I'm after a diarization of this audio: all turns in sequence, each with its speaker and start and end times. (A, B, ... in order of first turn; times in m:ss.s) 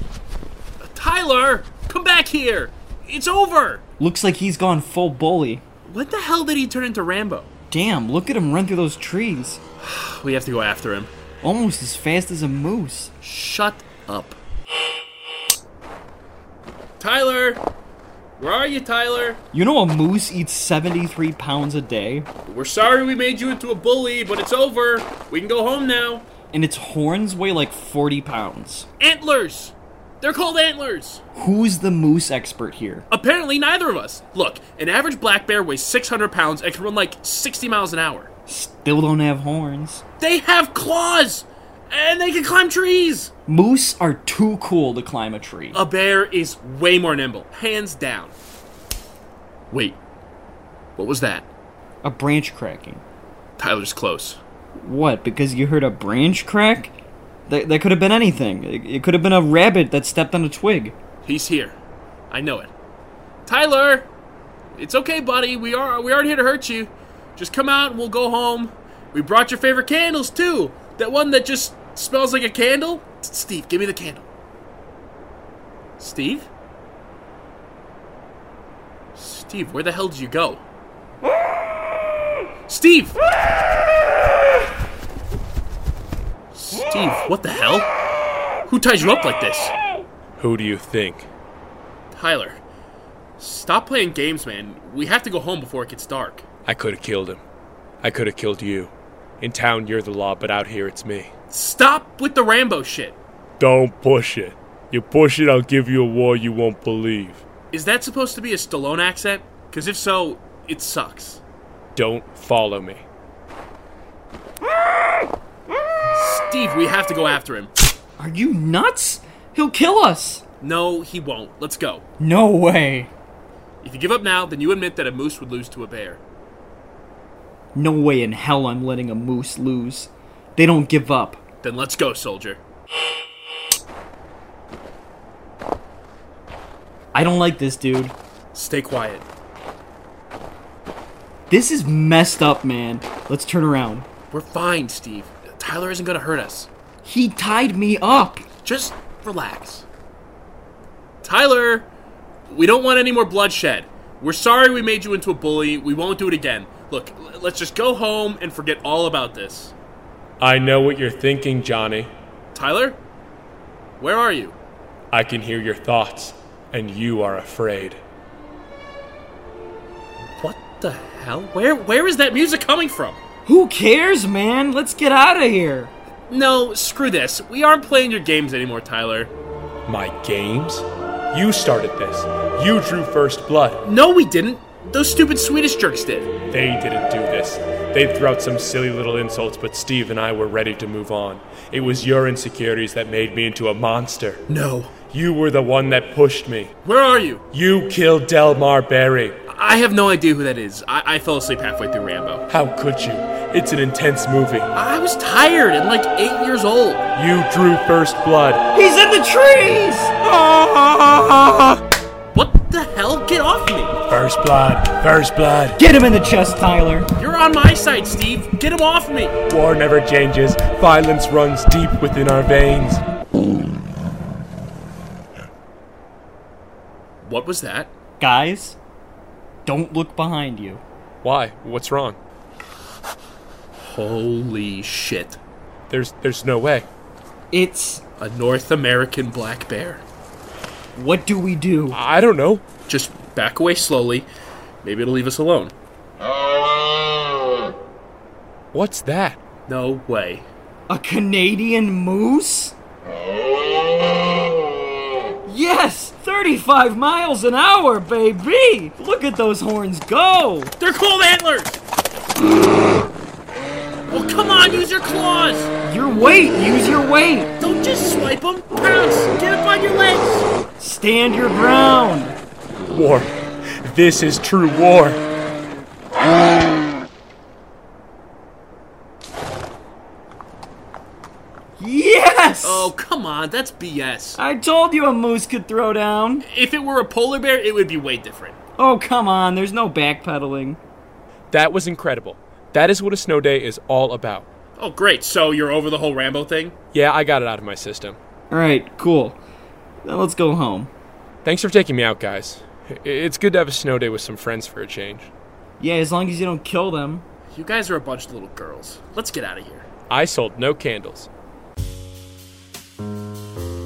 0:00.8-0:03.8 A
0:04.0-0:05.6 B
0:05.9-0:07.5 A
0:07.7-0:09.6 B
0:09.8-0:11.1 A
0:11.4-0:13.2 B
0:13.2-0:14.4 A
0:17.0-0:17.6 A
0:18.4-0:19.4 A
0:19.5-0:22.3 B
0:22.5-0:26.3 A
0:26.5-0:28.9 B
0:29.0-0:31.2 A
0:31.4-0:33.0 B
0:33.1-0:38.3 A
0:38.5-0:40.0 B
0:40.2-0:43.3 A
0:43.5-0:45.8 B
0:45.7-0:48.3 A
0:49.7-0:50.0 A
0:51.0-0:51.5 A
0:52.0-0:53.0 B
0:53.6-0:54.4 A
0:54.8-0:56.9 B
0:57.5-1:01.0 B
1:01.2-1:01.8 A
1:02.3-1:02.7 A
1:03.5-1:04.1 A
1:04.8-1:14.3 A
1:16.0-1:16.5 A
1:19.2-1:20.6 A
1:22.7-1:23.2 A
1:26.5-1:27.9 A
1:28.7-1:29.7 A
1:30.4-1:31.3 C
1:32.1-1:32.6 A
1:33.4-1:36.4 A
1:36.7-1:37.4 C
1:38.0-1:41.3 C
1:41.5-1:43.2 A
1:43.6-1:47.4 C
1:47.7-1:51.4 A
1:52.0-1:53.1 C
1:56.1-1:57.7 A
1:58.2-2:00.4 B
2:00.6-2:02.0 A
2:02.2-2:03.1 B
2:03.8-2:06.2 A
2:07.8-2:11.4 B
2:11.6-2:12.6 A
2:17.1-2:18.1 B
2:18.5-2:19.2 A
2:21.5-2:24.1 B
2:24.3-2:26.7 A
2:27.0-2:28.4 B
2:28.6-2:29.9 A
2:31.2-2:31.9 A
2:32.5-2:39.7 A
2:40.4-2:42.1 C
2:42.5-2:43.0 A
2:44.0-2:44.6 A
2:45.1-2:48.0 C
2:50.4-2:53.2 A
2:53.4-2:55.9 B
2:56.3-2:59.3 A
2:59.9-3:03.8 C
3:03.8-3:06.3 A
3:06.5-3:14.4 C
3:14.5-3:14.9 A
3:15.0-3:16.7 C
3:16.8-3:17.4 A
3:17.5-3:19.4 C
3:19.5-3:22.5 A
3:22.5-3:24.7 C
3:24.7-3:27.1 A
3:27.1-3:28.6 C
3:28.7-3:30.2 B
3:30.2-3:31.8 C
3:32.3-3:34.0 A
3:34.1-3:35.8 C
3:35.8-3:37.1 B
3:37.2-3:39.4 A
3:39.5-3:43.0 C
3:47.2-3:47.9 A
3:48.2-3:48.8 B
3:49.7-3:50.8 B
3:51.2-3:52.2 C
3:53.8-3:55.4 A
3:55.9-3:56.9 C
3:57.5-3:58.0 B
3:58.2-4:00.0 A
4:01.0-4:02.0 B
4:01.9-4:02.6 C
4:02.9-4:04.3 A
4:04.8-4:05.7 A
4:08.7-4:09.4 C
4:09.7-4:10.5 A
4:10.9-4:12.8 B
4:15.4-4:20.7 B
4:20.8-4:21.8 A
4:24.1-4:25.7 A
4:25.8-4:27.6 B
4:27.6-4:30.5 A
4:30.8-4:32.4 B
4:32.9-4:35.2 C
4:41.8-4:42.9 B
4:42.6-4:44.4 A
4:44.4-4:46.5 B
4:46.5-4:48.6 A
4:48.8-4:50.8 B
4:51.5-4:54.5 C
4:54.8-4:56.8 A
4:56.9-4:58.2 C
4:58.5-4:59.4 B
5:00.0-5:00.9 B
5:01.4-5:05.3 C
5:05.8-5:07.2 B
5:07.5-5:09.9 A
5:10.1-5:11.3 C